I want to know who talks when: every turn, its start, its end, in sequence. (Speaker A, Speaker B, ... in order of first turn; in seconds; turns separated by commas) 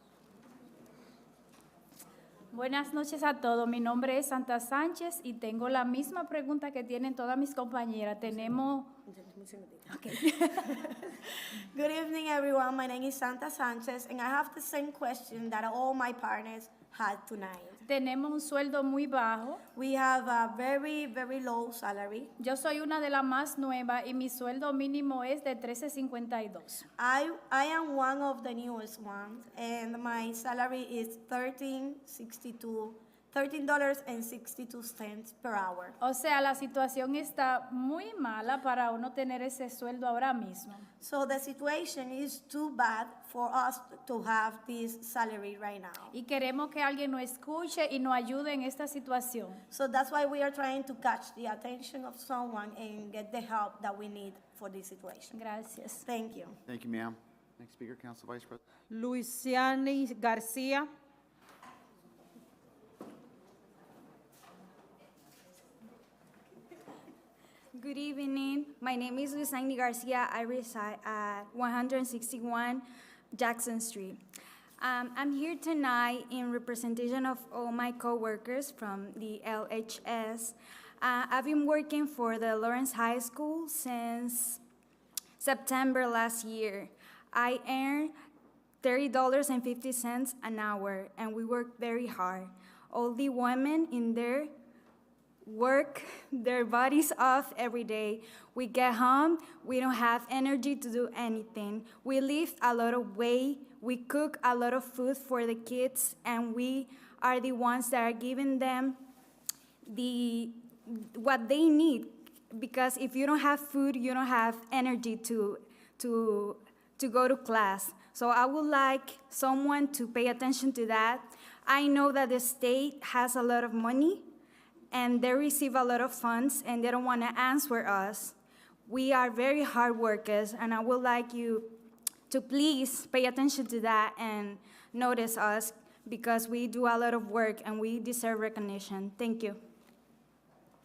Speaker A: 2.5-8.9, Speaker B: 9.1-17.9, Speaker A: 9.9-10.7, Speaker A: 17.9-19.6, Speaker B: 19.8-22.3, Speaker A: 22.4-26.9, Speaker B: 27.0-36.0, Speaker A: 36.0-40.9, Speaker B: 41.0-46.2, Speaker A: 46.1-49.6, Speaker B: 49.7-55.4, Speaker A: 55.3-56.0, Speaker B: 56.0-56.6, Speaker C: 56.7-58.6, Speaker D: 58.9-60.9, Speaker E: 67.7-74.2, Speaker E: 74.8-84.6, Speaker E: 85.4-88.1, Speaker E: 88.8-94.5, Speaker E: 95.4-109.0, Speaker E: 109.9-124.3, Speaker E: 124.9-139.6